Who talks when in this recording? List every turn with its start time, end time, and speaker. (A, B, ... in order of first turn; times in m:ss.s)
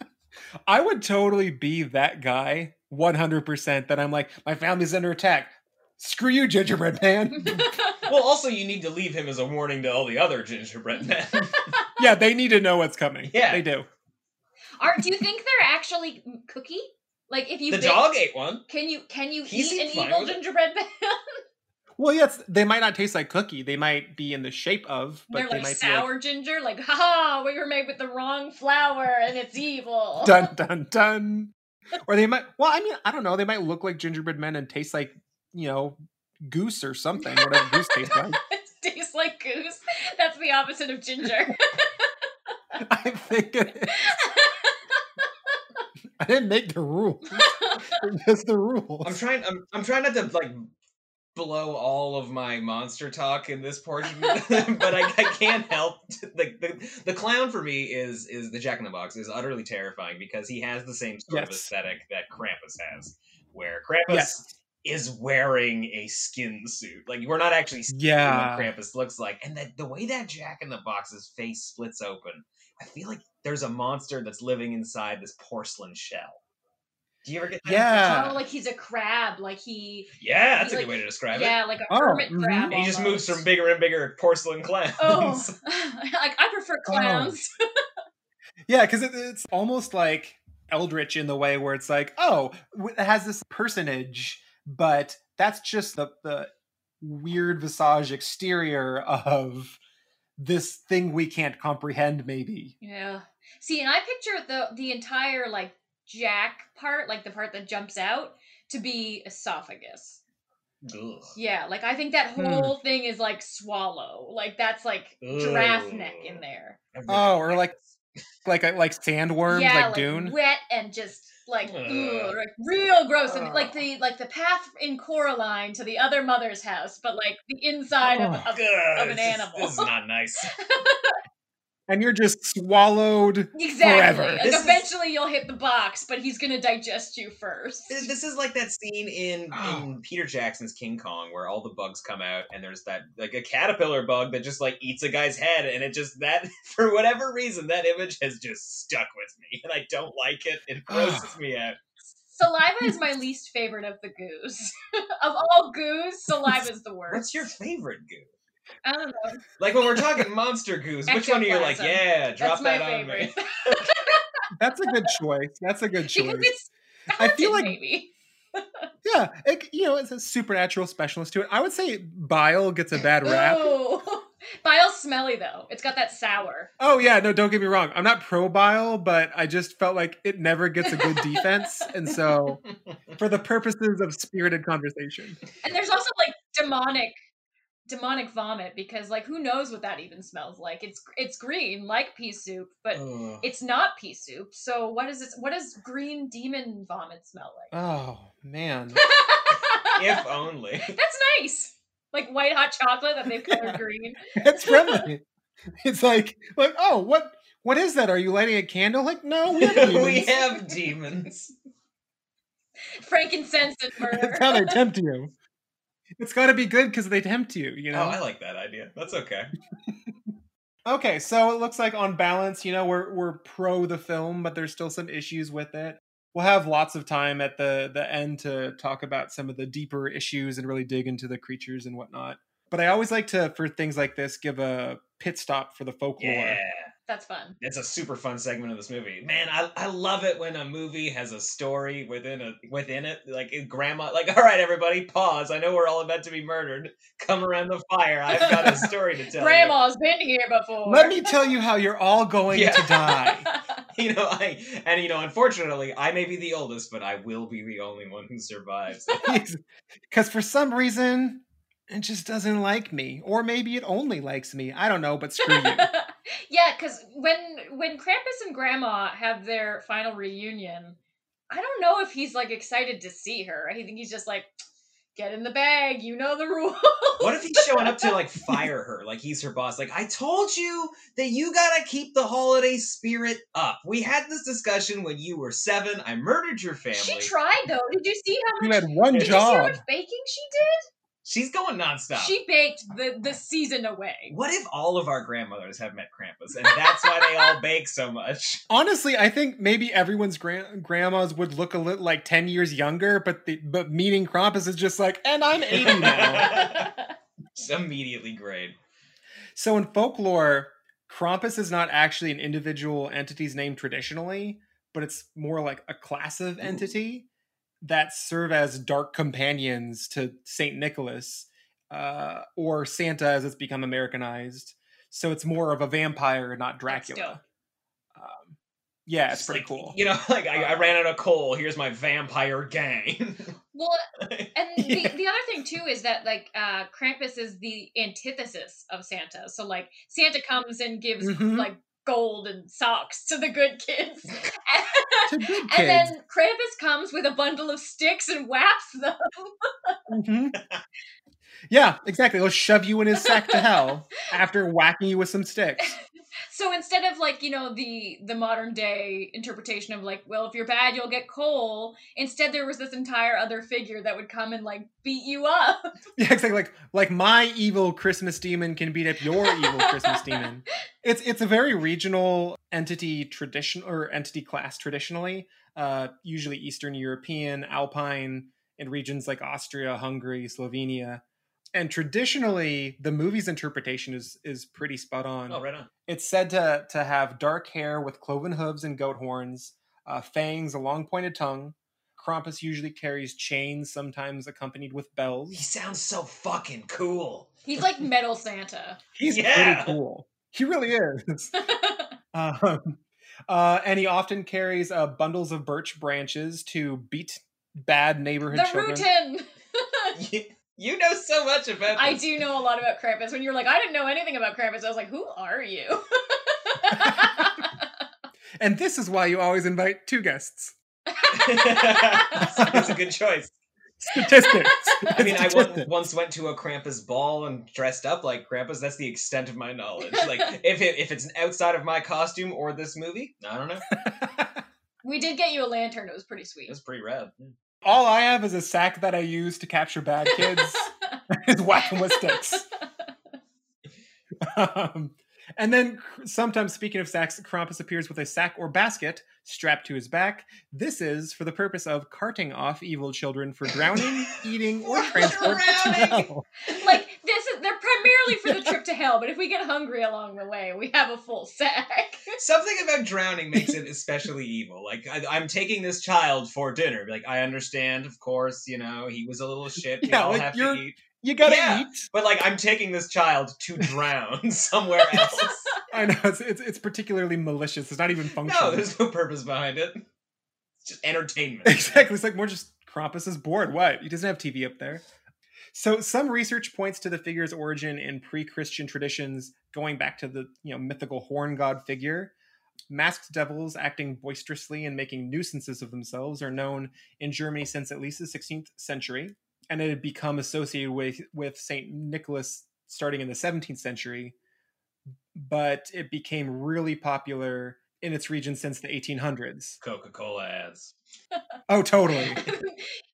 0:00.6-0:07.7 A
0:07.4-0:08.1 B
0:08.0-0:11.8 C
0:11.5-0:11.9 B
0:12.0-0:13.9 A
0:13.3-0:13.6 C
0:14.8-0:18.1 B
0:17.7-0:18.6 C
0:18.7-0:21.2 B
0:19.4-0:20.4 C
0:22.0-0:26.1 A
0:25.3-0:30.5 B
0:30.2-0:31.5 A
0:32.0-0:38.4 A
0:37.2-0:42.1 B
0:42.8-0:44.0 A
0:43.9-0:45.0 B
0:46.2-0:49.2 A
0:47.3-0:48.0 B
0:49.0-0:50.6 C
0:51.3-1:16.4 C
0:54.2-0:54.5 B
1:01.3-1:01.7 A
1:04.1-1:04.4 A
1:07.9-1:08.7 A
1:17.2-1:17.9 C
1:17.6-1:18.4 A
1:17.9-1:23.4 B
1:20.2-1:21.6 C
1:21.9-1:22.8 A
1:22.7-1:25.5 C
1:25.0-1:27.5 B
1:26.8-1:27.4 A
1:28.7-1:39.8 A
1:40.4-1:42.7 A
1:42.8-1:50.2 B
1:50.8-1:51.4 C
1:51.3-1:56.8 B
1:52.4-1:52.7 A
1:55.2-1:58.0 C
1:57.1-1:57.7 A
1:58.4-2:00.3 A
1:59.5-2:09.9 B
2:01.6-2:02.4 C
2:03.3-2:03.7 A
2:08.1-2:08.5 A
2:08.5-2:10.5 C
2:10.6-2:11.2 B
2:11.9-2:14.4 A
2:13.5-2:18.1 B
2:14.4-2:14.9 C
2:17.9-2:31.8 C
2:19.5-2:19.9 A
2:30.9-2:31.3 A
2:32.3-2:37.5 B
2:37.1-2:38.3 C
2:38.8-2:39.4 B
2:39.6-2:43.8 C
2:41.1-2:44.2 B
2:44.5-2:46.5 A
2:46.1-2:48.8 B
2:47.1-2:47.8 A
2:49.0-2:53.8 A
2:53.2-2:56.7 B
2:56.8-3:02.6 A
3:00.8-3:01.9 B
3:03.2-3:05.4 A
3:05.6-3:07.1 B
3:07.9-3:17.7 B
3:12.9-3:13.5 C
3:17.7-3:19.0 A
3:18.9-3:20.3 B
3:19.9-3:21.0 C
3:20.8-3:25.1 B
3:23.5-3:23.8 A
3:24.3-3:25.2 A
3:25.8-3:30.3 A
3:29.5-3:31.5 C
3:30.4-3:30.8 B
3:33.0-3:34.8 B
3:34.1-3:35.3 A
3:36.2-3:38.2 A
3:37.9-3:39.5 C
3:40.8-3:56.6 A
3:56.2-3:56.9 C
3:57.1-3:57.6 B
3:57.6-4:09.8 C
4:08.5-4:11.4 B
4:10.8-4:13.4 A
4:12.5-4:13.2 C
4:13.2-4:13.6 B
4:13.9-4:19.2 C
4:19.2-4:25.9 A
4:25.4-4:31.0 B
4:31.5-4:34.5 B
4:35.1-4:38.6 B
4:37.2-4:47.3 C
4:46.9-4:50.8 B
4:48.6-4:49.8 A
4:51.2-4:52.4 C
4:52.2-4:54.3 B
4:54.3-4:58.6 C
4:56.6-4:57.5 B
4:58.7-5:06.5 A
5:05.7-5:06.9 C
5:06.5-5:07.1 B
5:07.5-5:08.8 C
5:09.5-5:17.3 A
5:17.8-5:27.4 A
5:26.9-5:27.4 B
5:28.1-5:30.0 A
5:29.3-5:33.5 C
5:33.7-5:34.0 B
5:34.2-5:35.1 C
5:34.5-5:50.0 B
5:41.2-5:41.7 A
5:45.3-5:46.1 A
5:50.1-5:50.6 A
5:50.6-5:50.8 C
5:51.7-5:55.9 A
5:53.2-5:53.7 B
5:56.5-6:05.8 B
6:06.2-6:21.2 A
6:09.4-6:10.4 B
6:21.7-6:35.6 A
6:25.5-6:25.9 C
6:35.5-6:37.8 C
6:37.6-6:39.0 B
6:39.2-6:41.5 A
6:39.2-6:40.0 C
6:41.5-6:42.1 B
6:42.3-6:49.1 A
6:48.5-6:50.1 B
6:50.2-6:52.3 C
6:52.0-6:57.8 B
6:57.0-6:57.2 A
6:58.6-7:00.7 A
7:01.1-7:02.7 B
7:01.3-7:03.5 C
7:02.6-7:02.9 A
7:04.0-7:05.9 A
7:04.4-7:05.1 B
7:05.1-7:13.9 C
7:14.1-7:14.5 A
7:15.0-7:16.7 B
7:16.7-7:17.5 C
7:17.8-7:22.6 A
7:20.3-7:21.2 B
7:21.8-7:22.6 B
7:24.4-7:36.4 A
7:34.8-7:36.3 C
7:34.9-7:35.5 B
7:36.7-7:42.3 B
7:42.4-7:55.8 C
7:50.0-7:52.1 A
7:55.0-7:55.6 B
7:55.9-7:58.9 A
7:58.4-8:00.0 C
8:00.8-8:02.0 C
8:01.6-8:05.0 A
8:05.7-8:12.3 A
8:12.9-8:24.3 A
8:25.3-8:29.8 A
8:29.8-8:30.9 C
8:31.7-8:32.4 A
8:32.4-8:33.0 B